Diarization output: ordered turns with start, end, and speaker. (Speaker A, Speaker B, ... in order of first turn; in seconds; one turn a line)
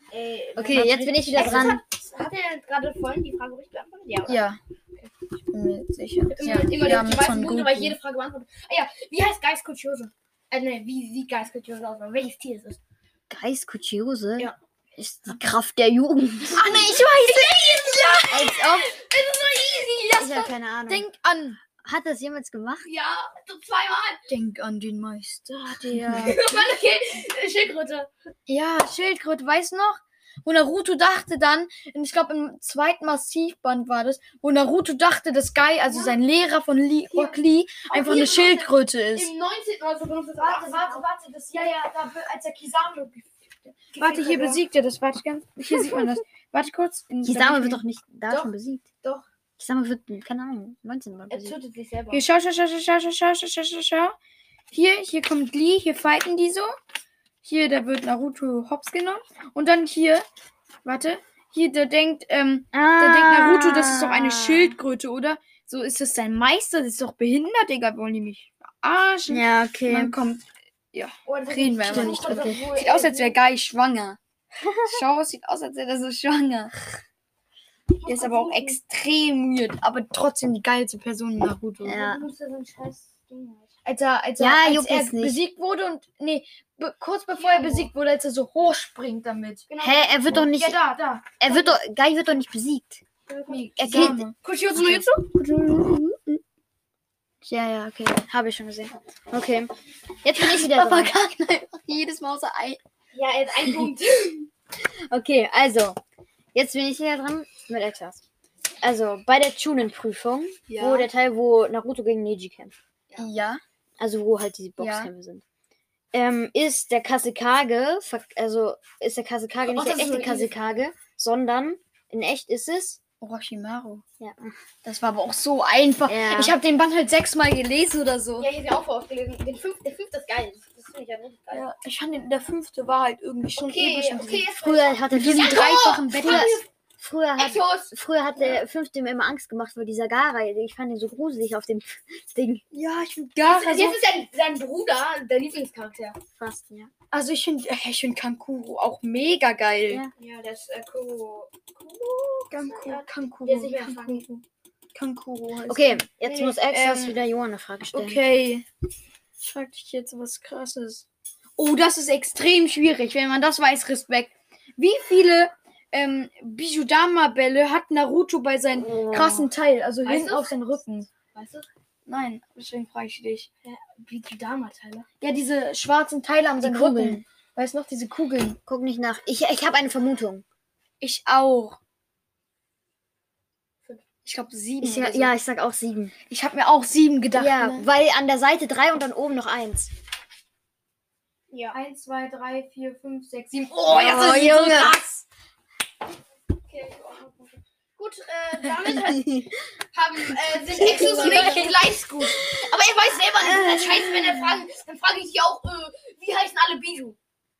Speaker A: 0.1-4.4
Speaker B: 0.6-1.8
Speaker C: 0.7-1.8
Speaker C: 4.2-4.6
Speaker C: 5.5-8.0
Speaker A: 6.3-12.8
Speaker B: 13.3-16.8
Speaker C: 16.5-18.5
Speaker A: 16.7-20.5
Speaker B: 18.3-18.9
Speaker B: 20.2-21.0
Speaker C: 20.9-21.6
Speaker B: 21.8-22.9
Speaker A: 22.8-24.2
Speaker C: 24.3-26.4
Speaker A: 26.0-28.1
Speaker C: 28.5-39.3
Speaker A: 35.9-36.1
Speaker A: 37.1-37.4
Speaker A: 37.9-41.0
Speaker C: 40.4-47.8
Speaker A: 43.9-44.6
Speaker B: 47.2-48.8
Speaker A: 48.3-49.2
Speaker B: 49.6-51.5
Speaker A: 51.3-52.2
Speaker C: 52.1-54.1
Speaker C: 54.7-56.7
Speaker C: 57.4-60.2
Speaker C: 60.8-74.2
Speaker B: 62.7-64.8
Speaker B: 69.3-70.2
Speaker A: 71.2-73.3
Speaker B: 71.9-72.6
Speaker B: 74.5-75.0
Speaker C: 74.9-76.7
Speaker A: 78.0-78.8
Speaker C: 78.0-82.1
Speaker B: 81.8-82.2
Speaker A: 81.9-83.7
Speaker C: 83.8-89.7
Speaker B: 84.4-85.4
Speaker A: 87.4-87.9
Speaker A: 89.7-91.8
Speaker B: 89.8-90.8
Speaker C: 90.4-91.1
Speaker B: 91.4-93.0
Speaker A: 93.3-95.3
Speaker C: 93.5-95.0
Speaker B: 93.8-94.3
Speaker C: 97.5-98.1
Speaker B: 98.0-99.7
Speaker B: 100.2-101.1
Speaker C: 100.3-102.8
Speaker A: 103.1-104.5
Speaker B: 104.8-106.0
Speaker B: 106.5-108.2
Speaker B: 108.8-112.7
Speaker C: 110.7-111.1
Speaker C: 113.2-113.6
Speaker B: 114.0-115.4
Speaker C: 114.8-115.1
Speaker B: 116.1-123.0
Speaker A: 119.7-120.6
Speaker C: 123.2-124.0
Speaker B: 124.2-124.6
Speaker C: 124.8-128.5
Speaker B: 126.1-126.5
Speaker A: 128.4-131.7
Speaker C: 131.5-134.5
Speaker A: 133.6-136.7
Speaker B: 134.6-142.6
Speaker C: 135.1-136.6
Speaker A: 137.4-138.6
Speaker C: 142.7-144.0
Speaker A: 143.4-146.2
Speaker B: 146.4-146.9
Speaker C: 147.1-150.0
Speaker A: 150.2-154.2
Speaker C: 152.5-154.4
Speaker C: 154.9-157.1
Speaker B: 155.7-158.2
Speaker A: 156.2-156.5
Speaker C: 157.9-158.6
Speaker C: 159.4-161.0
Speaker C: 161.6-171.1
Speaker B: 168.8-169.5
Speaker A: 170.0-170.7
Speaker A: 171.3-171.7
Speaker C: 172.1-173.5
Speaker A: 173.6-175.1
Speaker C: 175.2-178.6
Speaker B: 176.6-177.2
Speaker B: 178.7-180.4
Speaker C: 181.0-181.8
Speaker C: 184.2-185.3
Speaker B: 184.8-186.1
Speaker C: 186.3-187.9
Speaker B: 187.3-189.9
Speaker A: 191.5-191.8
Speaker C: 191.7-195.2
Speaker B: 193.9-195.0
Speaker A: 194.0-194.4
Speaker A: 196.7-207.2
Speaker B: 198.9-199.5
Speaker B: 200.7-201.8
Speaker C: 200.7-201.9
Speaker B: 203.4-204.5